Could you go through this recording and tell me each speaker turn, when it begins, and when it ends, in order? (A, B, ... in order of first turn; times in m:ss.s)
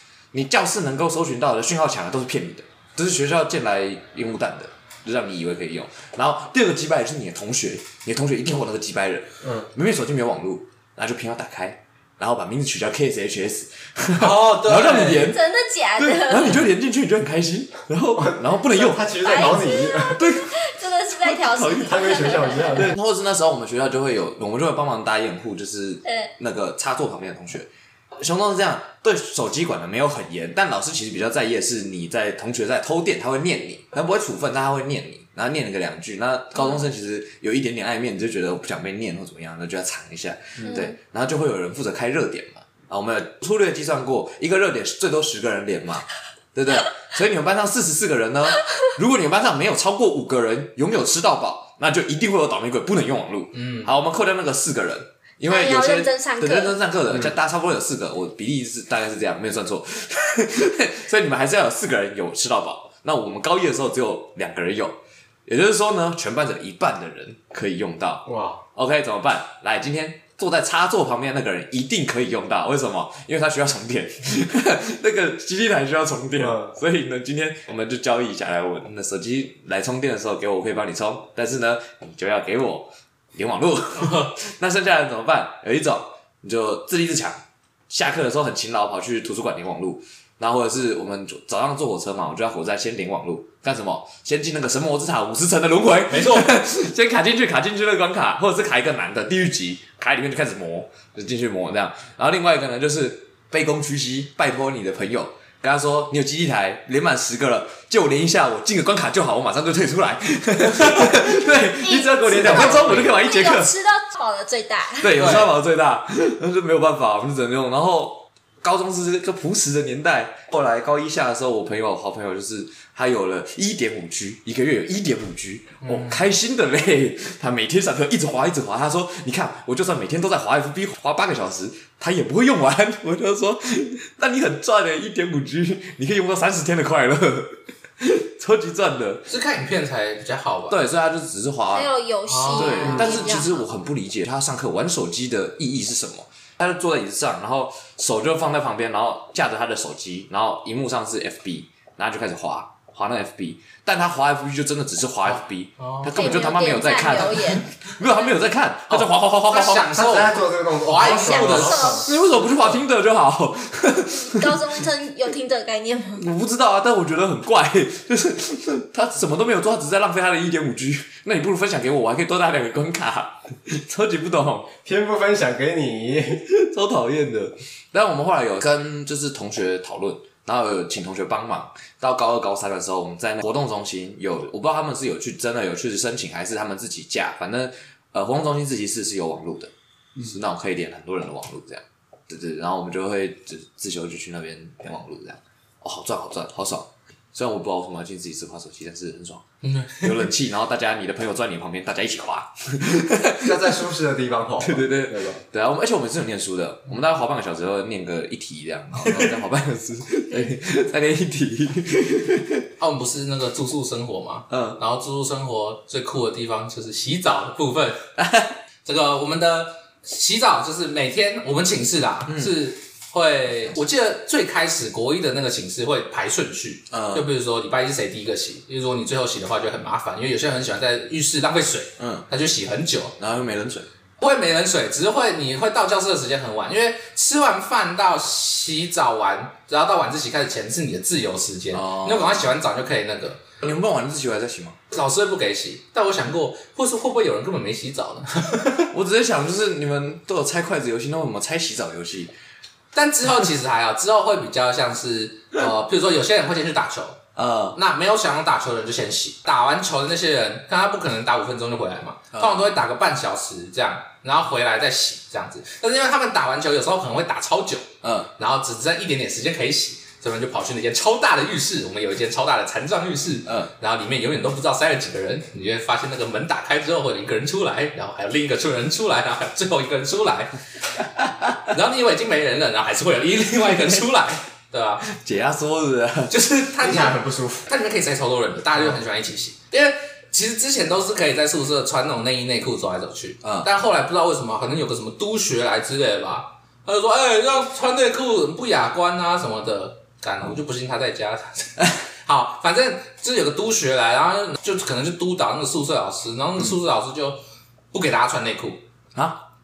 0:00.3-0:15.4 A
0:09.4-0:09.7 B
0:14.2-0:15.3 C
0:15.2-0:16.6 D
0:16.0-0:19.5 A
0:18.2-0:20.2 B
0:19.2-0:22.9 D
0:20.1-0:20.6 A
0:21.1-1:53.7 A
0:21.8-0:22.9 B
0:26.0-0:26.3 D
0:40.6-0:40.9 D
0:53.5-0:53.9 C
0:55.4-0:56.8 D
1:08.2-1:08.6 B
1:16.4-1:16.7 B
1:24.0-1:24.3 C
1:36.1-1:36.5 C
1:51.8-1:55.2 D
1:52.4-1:53.1 C
1:55.0-2:19.2 A
1:55.2-1:55.5 C
2:05.8-2:06.3 C
2:19.3-2:20.8 C
2:20.7-2:21.9 A
2:21.7-2:23.6 D
2:22.3-2:23.4 C
2:22.5-2:39.9 A
2:35.2-2:36.4 C
2:36.1-2:37.6 D
2:38.9-2:42.8 C
2:39.9-2:42.1 B
2:41.0-2:42.1 D
2:42.0-2:44.8 A
2:44.2-2:46.3 D
2:46.2-2:54.7 A
2:54.8-2:56.5 B
2:56.5-3:23.7 A
3:19.6-3:20.2 C
3:23.4-3:25.4 B
3:24.6-3:32.7 A
3:29.0-3:29.3 B
3:32.8-3:38.0 C
3:34.5-3:34.8 A
3:38.2-3:38.6 A
3:38.8-3:53.2 C
3:42.3-3:42.6 A
3:46.9-3:47.3 A
3:52.0-3:52.2 A
3:53.2-3:53.9 A
3:54.2-4:03.5 C
4:01.7-4:02.5 A
4:03.6-4:04.8 A
4:04.9-4:08.9 C
4:08.9-4:12.3 A
4:12.9-4:17.2 C
4:17.4-4:17.8 A
4:17.7-4:40.5 C
4:22.3-4:22.7 A
4:28.0-4:28.3 A
4:41.2-4:41.6 A
4:41.7-4:45.0 C
4:45.0-4:46.3 A
4:46.3-5:07.4 C
4:46.8-4:47.7 B
4:53.4-4:53.7 A
5:07.9-5:08.8 C
5:09.1-5:09.4 A